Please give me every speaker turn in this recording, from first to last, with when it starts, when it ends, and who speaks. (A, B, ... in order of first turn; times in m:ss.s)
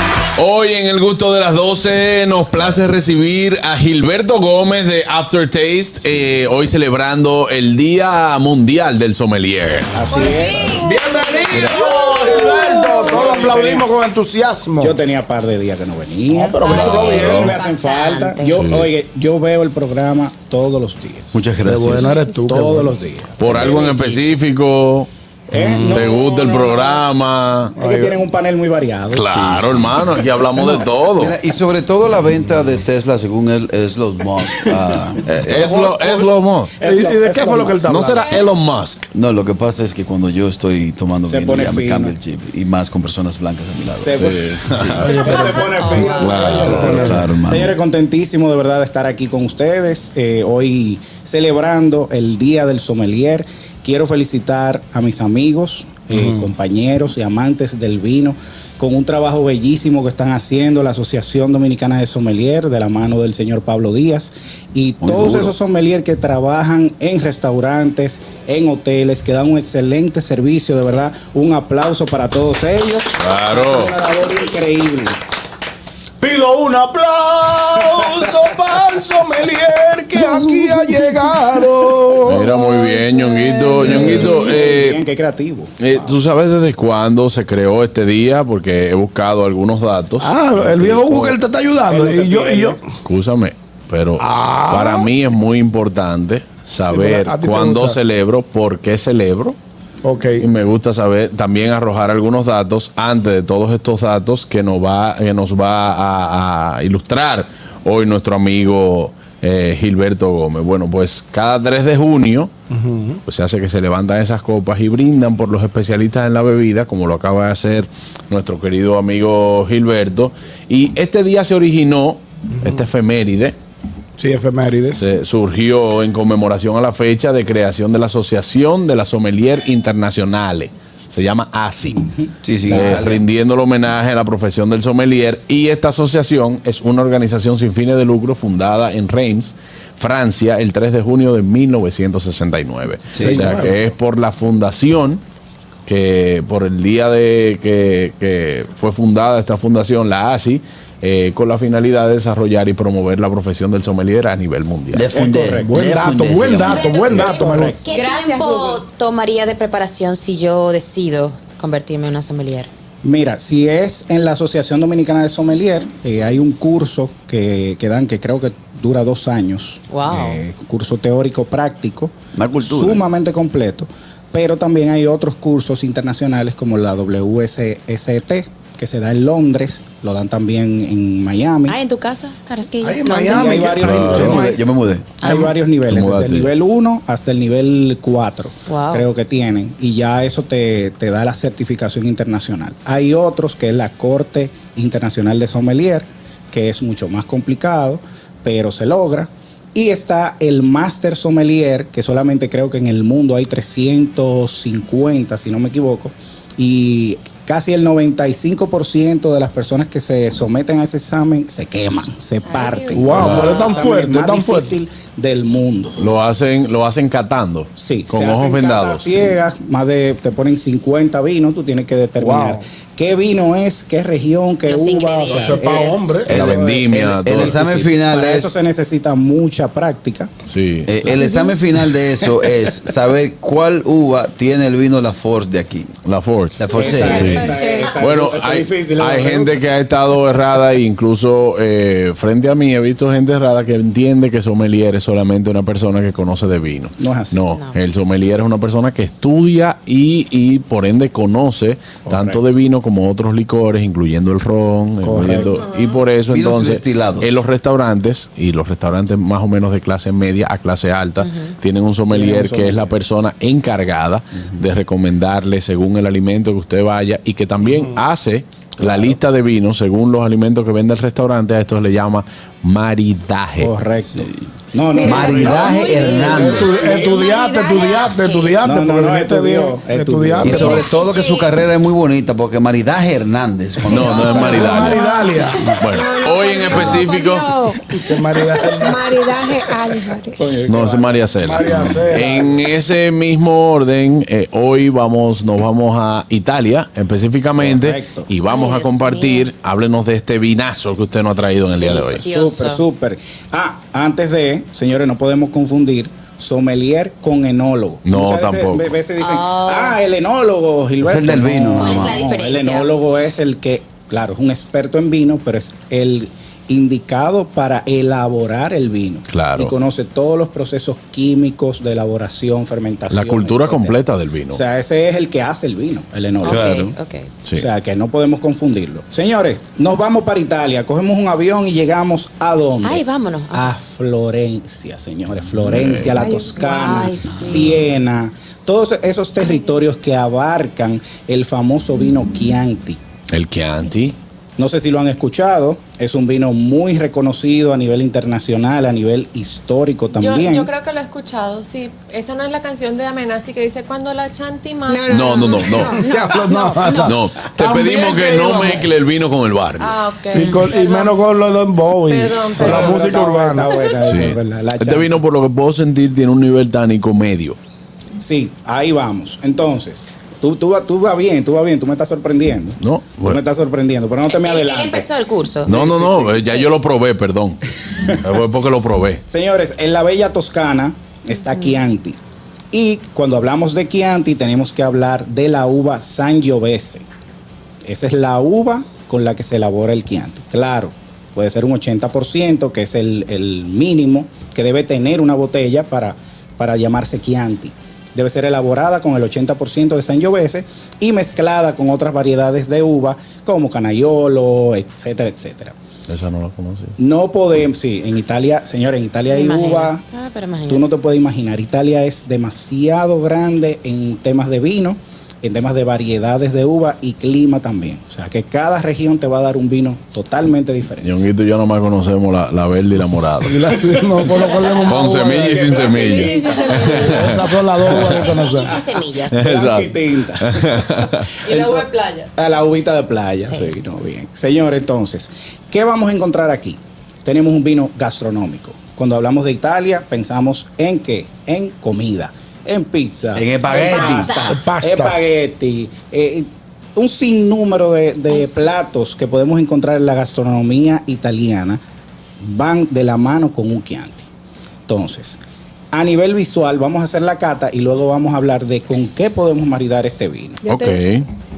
0:00.4-0:09.9 A
0:09.9-0:10.8 B
0:10.1-0:11.0 C
0:10.6-0:15.0 D
0:11.5-0:11.8 E
0:12.7-0:13.9 B
0:14.8-0:21.4 B
0:16.3-0:17.4 D
0:16.6-0:18.6 F
0:16.7-0:17.6 A
0:18.5-0:18.9 A
0:21.3-0:22.2 E
0:21.6-0:22.9 D
0:22.3-0:24.2 B
0:23.4-0:25.1 A
0:25.5-0:27.0 B
0:25.5-0:26.2 D
0:25.8-0:27.7 A
0:27.7-0:28.2 D
0:27.8-0:29.4 B
0:29.1-0:31.4 A
0:29.3-0:35.8 E
0:35.2-0:36.7 A
0:35.6-0:36.3 D
0:36.8-0:38.4 D
0:36.8-0:38.1 B
0:37.9-0:39.1 A
0:39.1-0:45.0 E
0:41.2-0:42.2 B
0:44.0-0:44.4 B
0:44.2-0:45.0 A
0:44.8-0:47.3 D
0:45.0-1:15.2 B
0:45.1-0:46.6 F
0:46.1-0:47.1 A
0:46.8-0:47.7 E
0:56.1-0:56.5 D
1:05.0-1:05.5 E
1:10.8-1:11.1 F
1:13.2-1:14.0 A
1:16.2-1:23.0 D
1:22.2-1:25.0 A
1:23.8-1:24.4 D
1:23.8-1:26.0 B
1:25.8-1:31.4 A
1:30.2-1:32.8 D
1:31.9-1:32.8 B
1:33.0-1:39.6 A
1:34.2-1:35.1 D
1:36.9-1:38.0 D
1:40.0-1:40.5 D
1:40.4-1:52.5 A
1:52.7-1:53.2 D
1:53.2-2:03.6 A
2:02.6-2:02.9 D
2:04.2-2:05.1 D
2:05.0-2:12.1 A
2:12.2-2:13.1 B
2:12.4-2:13.2 E
2:12.6-2:25.2 A
2:23.1-2:23.6 E
2:23.1-2:23.8 D
2:25.8-2:35.0 A
2:34.9-2:37.3 E
2:35.1-2:35.8 B
2:35.5-2:37.8 D
2:36.6-2:42.7 F
2:37.1-2:37.8 B
2:37.9-2:38.8 G
2:43.0-3:01.8 B
2:49.9-2:50.4 F
2:52.3-2:53.0 E
3:01.7-3:03.7 F
3:02.8-3:04.6 D
3:03.2-3:04.6 B
3:03.8-3:04.5 A
3:04.0-3:05.1 E
3:05.2-3:36.0 B
3:05.9-3:06.5 A
3:08.7-3:09.0 F
3:32.4-3:33.8 C
3:32.9-3:34.8 D
3:36.0-3:39.2 A
3:37.8-3:50.3 B
3:42.2-3:42.6 D
3:44.6-3:46.2 F
3:45.2-3:46.3 D
3:46.3-3:47.8 A
3:46.3-3:48.5 E
3:50.5-3:50.9 A
3:50.8-3:55.9 E
3:51.2-3:51.5 G
3:56.0-4:33.7 A
3:56.6-3:57.4 E
3:56.7-3:59.6 B
3:56.9-3:58.0 G
4:07.0-4:07.4 B
4:12.0-4:12.4 B
4:15.0-4:15.6 B
4:15.4-4:16.0 C
4:16.3-4:17.4 E
4:21.2-4:21.5 F
4:22.1-4:23.0 B
4:27.6-4:28.0 D
4:28.8-4:29.2 B
4:33.6-4:37.1 B
4:34.9-4:38.5 G
4:35.0-4:36.7 E
4:35.2-4:40.8 D
4:38.6-4:40.8 B
4:40.4-4:44.6 E
4:40.9-4:41.5 F
4:43.9-4:45.0 A
4:43.9-4:45.8 D
4:44.2-4:47.9 G
4:45.8-4:47.5 A
4:46.7-4:47.0 D
4:48.0-4:49.2 D
4:48.8-4:50.4 G
4:50.4-4:52.7 D
4:50.6-5:02.2 A
4:57.6-4:58.3 B
4:58.5-4:59.5 F
5:01.8-5:02.8 F
5:02.1-5:24.0 B
5:08.0-5:08.9 A
5:09.2-5:10.0 F
5:11.0-5:12.2 E
5:11.8-5:12.9 F
5:19.3-5:19.7 A
5:23.1-5:24.6 A
5:24.5-5:26.8 B
5:26.4-5:27.3 F
5:26.5-5:26.9 A
5:27.5-5:43.0 B
5:32.8-5:33.7 F
5:35.6-5:36.1 A
5:36.2-5:37.7 F
5:36.3-5:37.0 G
5:43.3-5:44.2 A
5:44.6-5:50.7 B
5:50.1-5:55.7 C
5:54.9-5:57.1 G
5:55.1-5:56.0 A
5:56.0-5:58.7 D
5:57.0-6:00.0 A
5:59.8-6:01.2 C
6:00.3-6:03.8 D
6:02.0-6:03.2 C
6:02.6-6:05.2 B
6:04.0-6:07.6 A
6:08.2-6:15.1 B
6:12.8-6:13.4 A
6:14.3-6:15.9 F
6:15.6-6:19.2 A
6:15.7-6:16.6 B
6:19.3-6:22.2 B
6:22.7-6:27.0 B
6:27.8-6:45.8 B
6:46.1-6:46.9 A
6:47.0-6:50.0 B
6:49.3-6:50.8 F
6:50.7-7:01.2 B
7:01.0-7:03.6 A
7:03.4-7:05.9 D
7:04.8-7:07.4 A
7:05.8-7:07.3 G
7:05.8-7:06.9 C
7:07.1-7:08.7 D
7:07.9-7:09.5 F
7:09.3-7:11.3 A
7:09.4-7:31.8 B
7:11.4-7:12.3 C
7:23.3-7:24.3 E
7:23.8-7:24.5 F
7:24.4-7:25.3 D
7:32.4-7:34.3 B
7:34.9-7:35.4 B
7:35.9-7:40.6 B
7:40.6-7:41.0 G
7:40.6-7:41.3 A